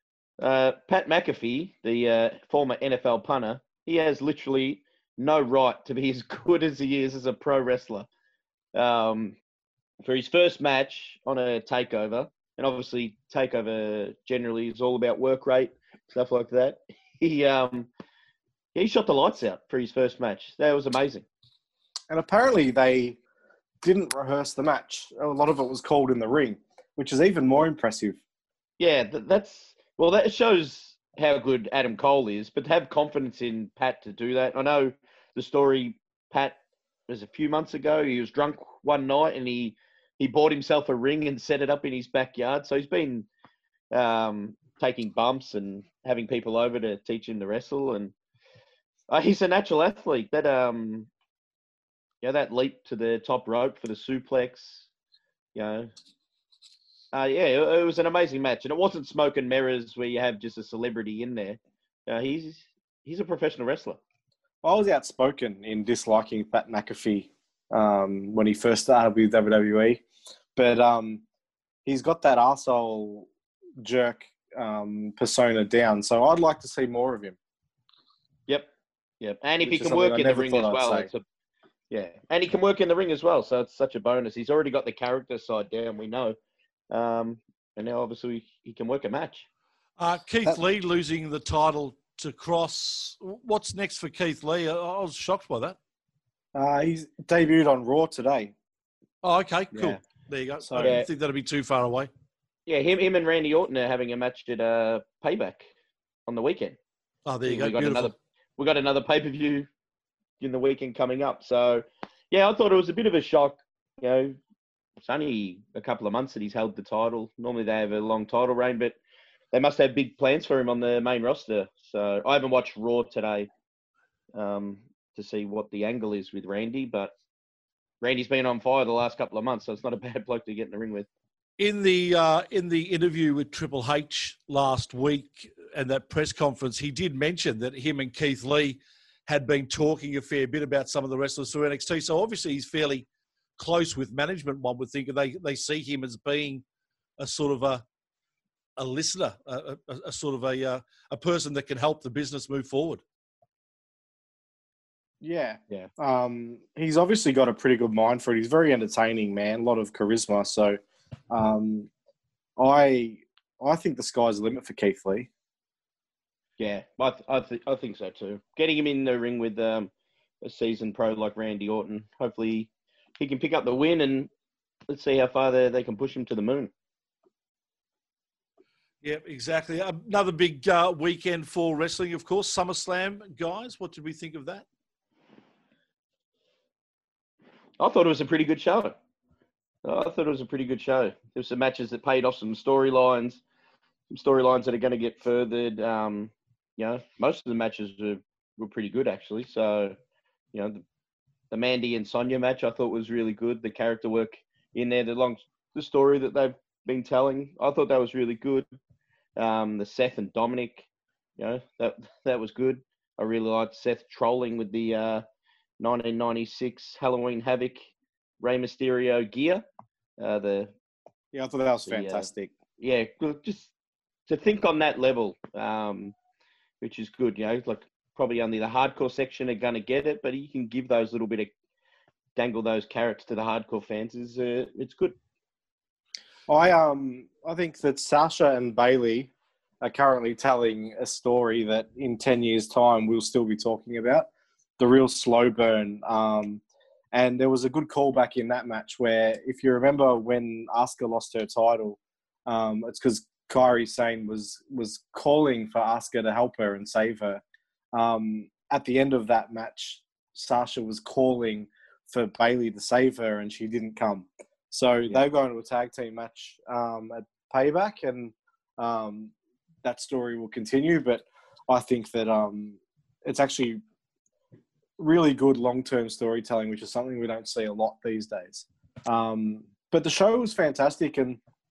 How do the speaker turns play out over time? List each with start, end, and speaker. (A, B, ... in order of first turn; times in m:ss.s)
0:00.4-0:08.1 A
0:08.7-0:09.4 A
0:10.0-0:17.9 A
0:18.8-0:21.2 A
0:22.1-0:23.2 B
0:23.8-0:28.2 B
0:28.8-0:36.6 A
0:37.1-0:43.3 A
0:43.9-0:48.1 A
0:49.1-0:51.1 A
0:52.2-0:54.8 A
0:55.6-0:55.9 A
0:57.1-1:04.0 A
1:04.6-1:10.0 B
1:10.6-1:11.2 B
1:11.8-1:13.3 B
1:13.8-1:17.4 B
1:19.2-1:21.2 A
1:19.6-1:21.1 B
1:21.9-1:26.4 A
1:26.9-1:29.5 A
1:30.0-1:35.8 C
1:36.5-1:38.5 B
1:39.2-1:42.1 C
1:39.7-1:40.0 A
1:40.6-1:41.0 B
1:40.8-1:41.1 A
1:42.7-1:45.7 A
1:46.3-1:46.8 A
1:47.3-1:48.1 C
1:47.4-1:49.7 A
1:50.4-1:54.4 A
1:55.0-1:59.0 A
1:59.5-2:03.5 A
2:04.3-2:07.2 A
2:08.0-2:11.1 A
2:11.6-2:26.6 C
2:27.2-2:27.8 C
2:28.8-2:33.0 C
2:35.2-2:41.9 B
2:42.6-2:45.3 B
2:46.6-2:49.9 A
2:50.4-2:54.3 A
2:54.9-2:56.7 A
2:59.0-3:04.7 C
3:07.8-3:09.0 A
3:09.8-3:13.4 A
3:14.1-3:20.0 A
3:20.5-3:20.8 A
3:21.5-3:28.7 A
3:29.4-3:30.9 A
3:31.4-3:35.2 A
3:35.8-3:37.9 A
3:38.4-3:39.6 A
3:40.2-3:40.7 A
3:41.3-3:42.5 B
3:41.9-3:43.7 A
3:44.3-3:46.2 A
3:46.8-3:51.5 A
3:52.4-3:55.2 A
3:56.5-4:17.4 B
4:17.9-4:29.3 B
4:29.8-4:33.8 B
4:35.0-4:41.4 B